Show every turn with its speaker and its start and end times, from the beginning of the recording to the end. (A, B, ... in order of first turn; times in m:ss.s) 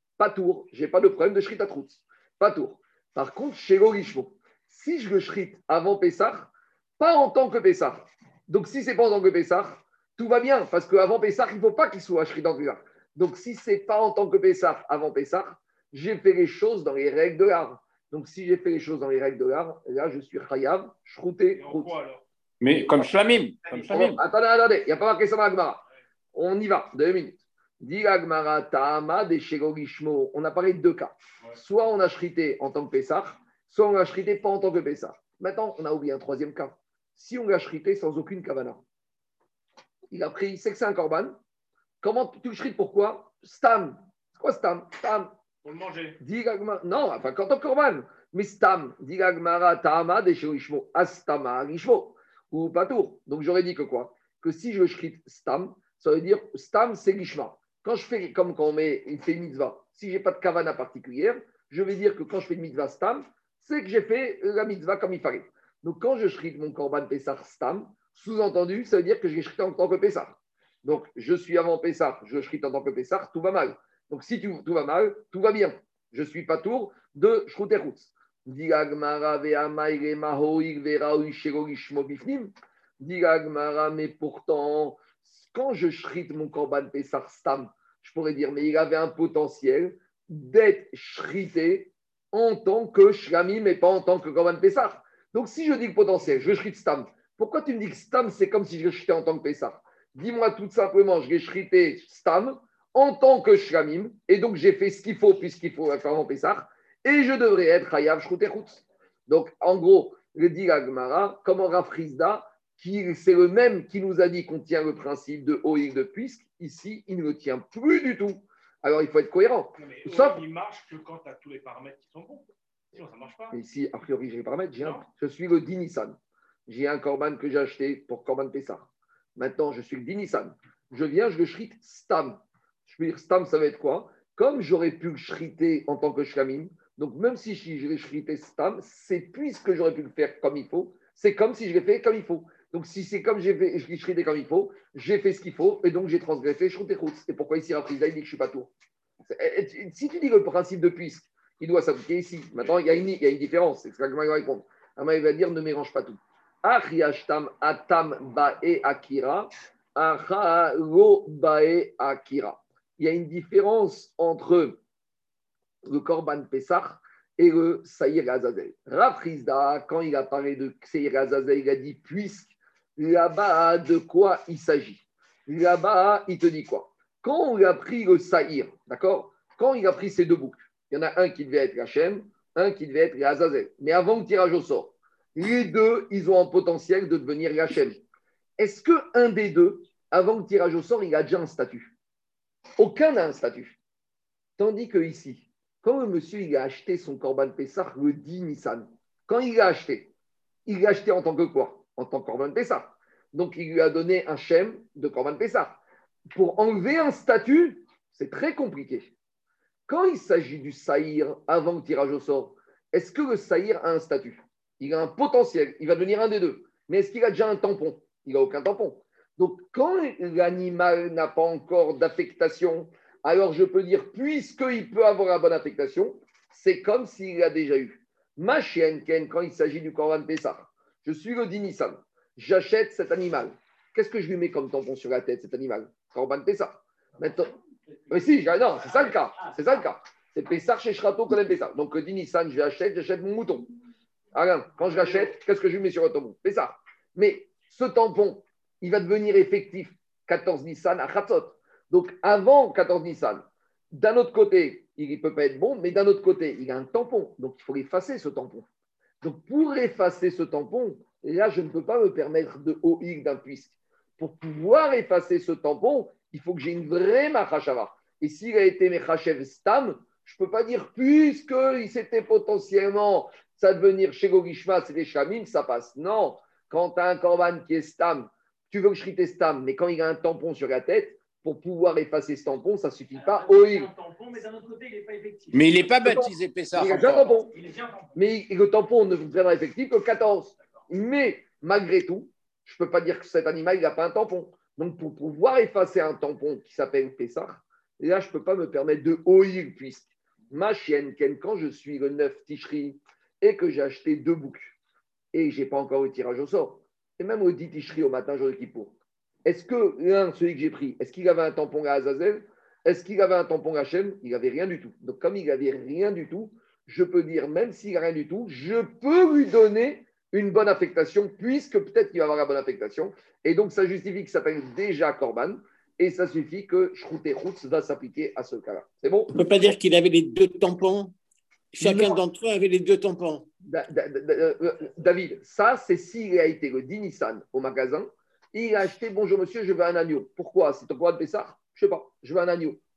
0:00.2-0:22.0 A
0:21.5-0:22.2 B
0:22.6-0:24.2 C
0:22.7-0:23.1 A
0:23.7-0:25.8 A
0:26.3-0:38.8 A
0:40.1-0:41.4 A
0:42.0-0:45.3 A
0:45.6-0:46.2 B
0:46.2-2:00.4 A
1:59.7-2:03.6 B
2:03.5-2:28.7 A
2:04.8-2:05.0 B
2:29.2-2:44.8 A
2:45.8-3:08.0 A
3:08.6-3:11.9 A
3:12.8-3:13.8 A
3:14.6-3:20.1 A
3:20.6-3:25.8 A
3:26.3-3:29.1 A
3:29.9-3:57.5 A
3:58.1-4:03.7 A
3:58.9-3:59.6 D
4:04.3-4:18.6 A
4:19.2-4:43.9 A
4:43.1-4:45.9 D
4:45.5-4:47.3 C
4:46.0-4:47.5 A
4:47.5-4:48.2 D
4:48.1-5:04.7 A
5:05.3-5:29.4 A
5:29.3-5:31.1 E
5:31.7-5:33.5 E
5:31.8-5:32.2 A
5:33.6-5:42.8 A